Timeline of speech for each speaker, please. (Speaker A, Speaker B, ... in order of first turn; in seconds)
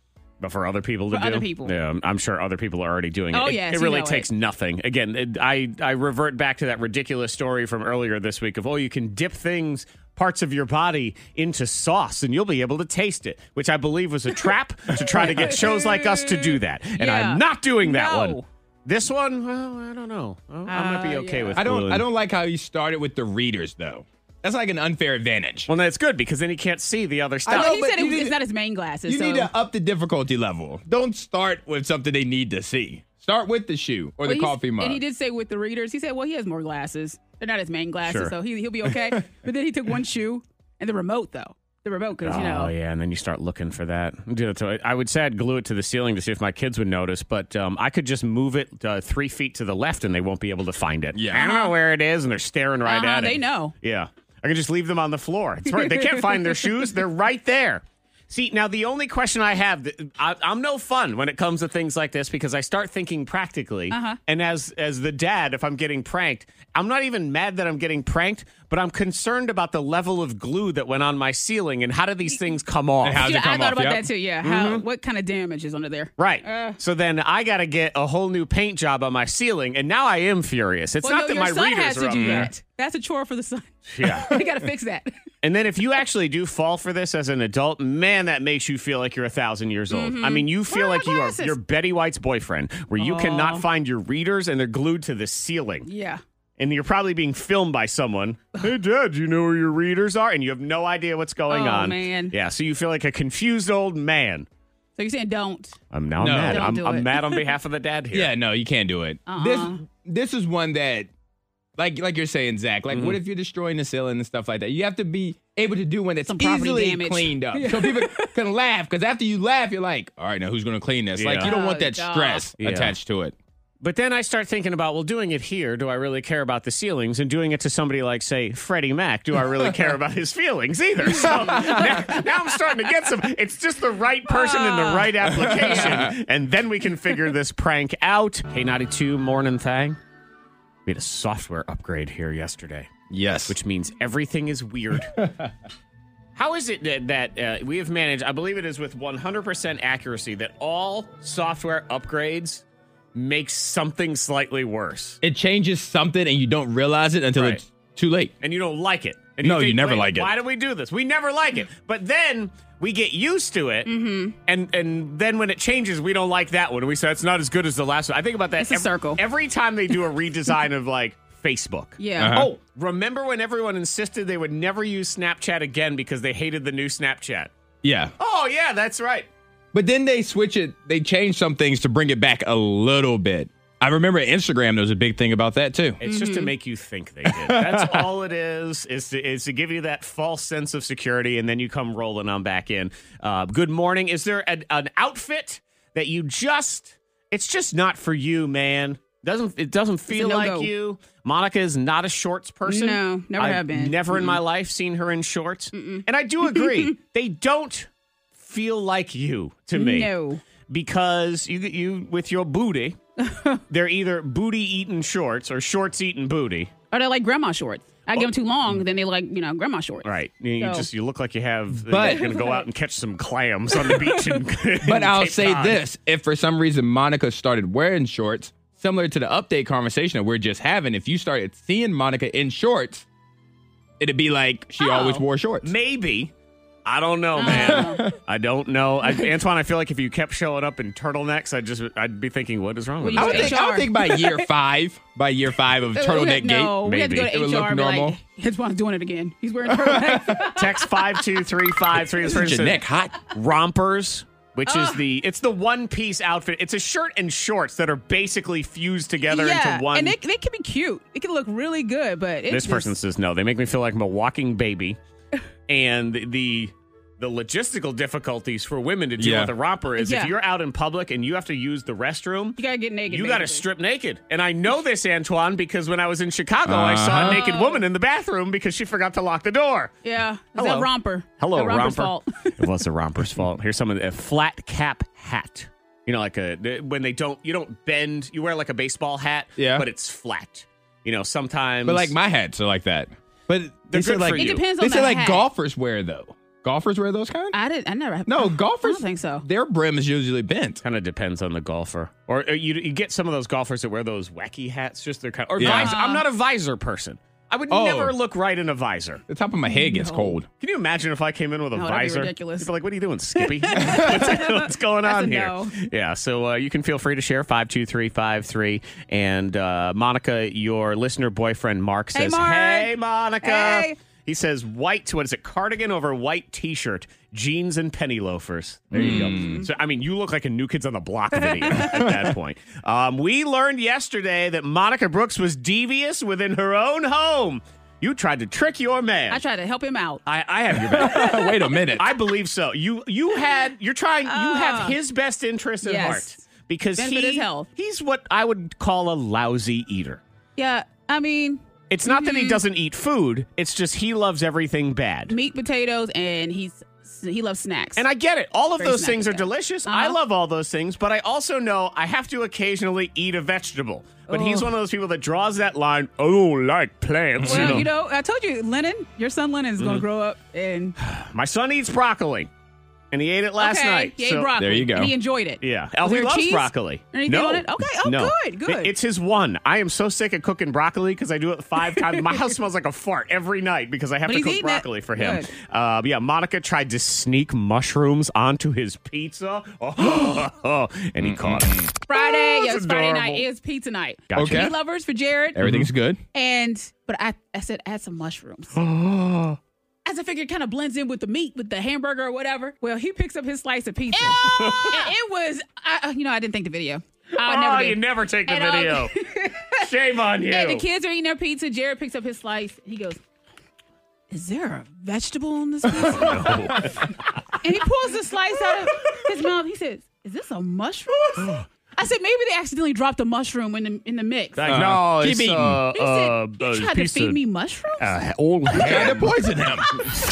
Speaker A: 0.4-22.1, 25.7-27.8, 38.0-38.3, 42.2-73.2, 74.4-74.8, 76.2-82.5, 83.9-84.3, 85.4-95.9, 96.6-104.5, 105.9-108.3, 112.9-113.2, 121.2-121.5, 122.6-122.9, 123.8-140.0, 140.9-142.9, 143.5-145.2, 146.4-155.2, 157.3-157.6, 158.4-163.9, 164.5-177.5, 178.2-179.3, 186.0-210.1, 210.7-213.0, 213.7-216.7, 218.1-218.8, 220.0-225.8, 235.6-236.3, 236.9-243.6, 246.8-247.3, 250.5-260.1, 262.5-265.0, 265.7-279.9, 280.5-292.1, 293.9-294.6, 300.8-309.2, 310.6-339.4, 340.2-341.4, 342.0-350.2, 351.9-355.3, 358.0-367.9, 369.8-370.0, 371.0-372.5, 373.1-374.5, 375.6-393.4, 394.3-394.7, 398.7-399.6, 404.2-405.1, 407.4-409.1, 409.8-410.8, 416.0-417.1, 424.6-427.4, 428.0-429.3
Speaker B: 1.1-1.8, 3.3-4.3, 15.2-18.4, 20.7-21.6, 27.5-29.5, 34.2-42.7, 51.3-51.8, 52.9-53.8, 55.8-56.8, 63.9-64.2, 73.2-76.8, 81.0-85.1, 89.9-91.6, 93.0-93.6, 95.9-96.2, 101.5-102.3, 105.0-105.8, 106.5-107.5, 109.3-109.8, 116.2-118.4, 121.4-122.5, 131.2-132.1, 134.3-135.1, 163.9-164.4, 168.6-169.2, 172.0-172.5, 186.0-186.5, 200.1-200.7, 202.7-204.4, 205.7-207.0, 209.7-210.4, 213.2-213.6, 216.9-220.9, 222.0-222.7, 223.8-224.4, 234.8-235.2, 237.4-238.0, 243.0-244.5, 245.9-251.4, 254.7-255.0, 259.3-262.9, 270.0-270.3, 272.6-273.6, 277.2-277.9, 280.0-282.6, 294.4-295.5, 297.5-299.4, 305.6-306.3, 309.6-310.4, 311.8-312.7, 313.4-315.8, 322.1-324.0, 329.0-329.7, 331.4-332.1, 339.3-340.2, 340.9-341.8, 344.2-345.0, 345.8-347.7, 350.6-352.6, 355.3-358.0, 358.8-360.2, 364.3-364.7, 367.4-371.0, 373.6-378.9, 384.2-385.5, 392.1-395.6, 396.3-398.8, 400.0-409.9, 410.5-413.2, 414.3-416.9, 417.6-424.7, 425.9-428.2, 428.8-429.2
Speaker C: 21.6-25.7, 27.4-28.4, 29.1-35.0, 51.1-51.4, 73.0-74.1, 82.1-82.5, 84.1-84.5, 106.2-106.8, 108.1-111.1, 111.8-123.3, 131.5-132.0, 135.3-136.2, 143.1-143.6, 145.1-145.5, 155.2-158.3, 159.4-160.3, 172.2-172.5, 177.8-178.1, 179.7-186.0, 187.2-188.1, 221.8-222.3, 224.8-233.1, 234.0-235.7, 237.4-238.1, 243.1-248.2, 249.7-250.5, 252.2-253.2, 269.2-269.5, 276.6-277.4, 289.6-289.9, 291.9-297.6, 298.2-300.8, 305.6-305.9, 307.7-308.1, 309.3-310.5, 328.9-329.6, 340.9-342.1, 367.4-367.9, 374.6-375.1, 391.2-391.9, 394.4-394.7, 395.5-396.2, 424.6-425.8, 428.8-429.9